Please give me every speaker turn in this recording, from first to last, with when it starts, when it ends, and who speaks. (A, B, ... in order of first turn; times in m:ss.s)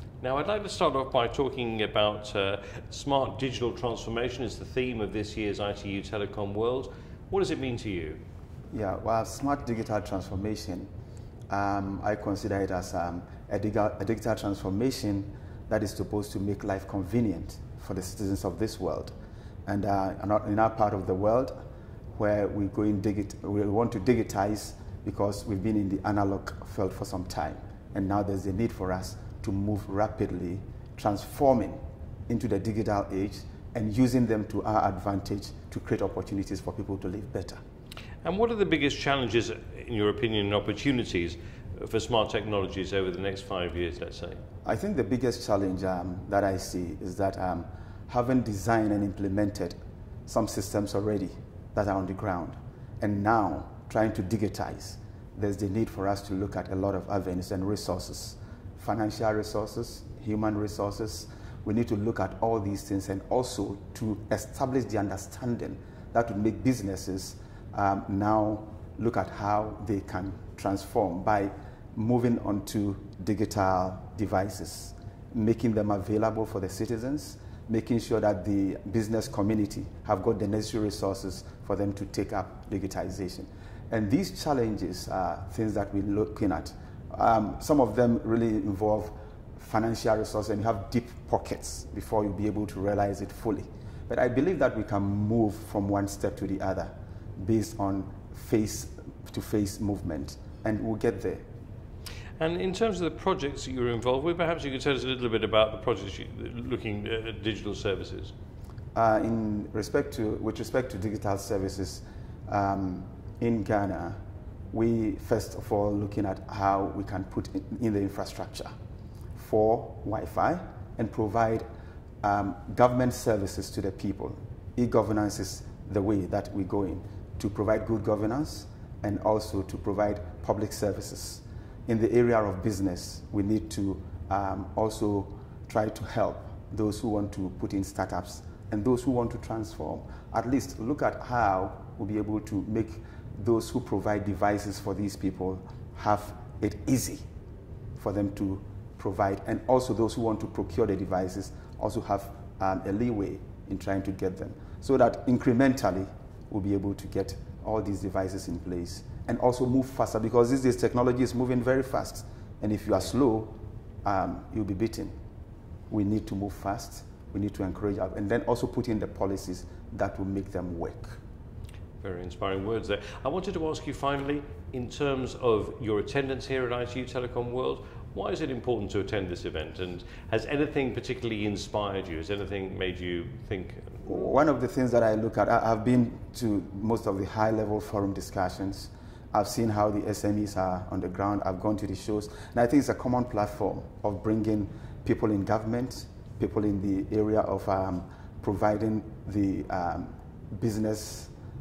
0:00.2-0:08.2 A
0:08.7-0:10.9 B
0:11.5-0:19.1 B
0:19.6-0:21.6 B
0:22.1-0:37.6 B
0:38.2-0:44.4 A
0:44.6-1:41.4 B
1:42.4-1:48.3 A
1:48.9-1:54.2 B
1:54.7-1:58.7 B
1:59.3-2:01.6 B
2:02.2-2:27.2 B
2:28.0-2:45.1 B
2:45.9-2:51.2 B
2:52.0-3:04.1 A
3:04.0-3:21.3 B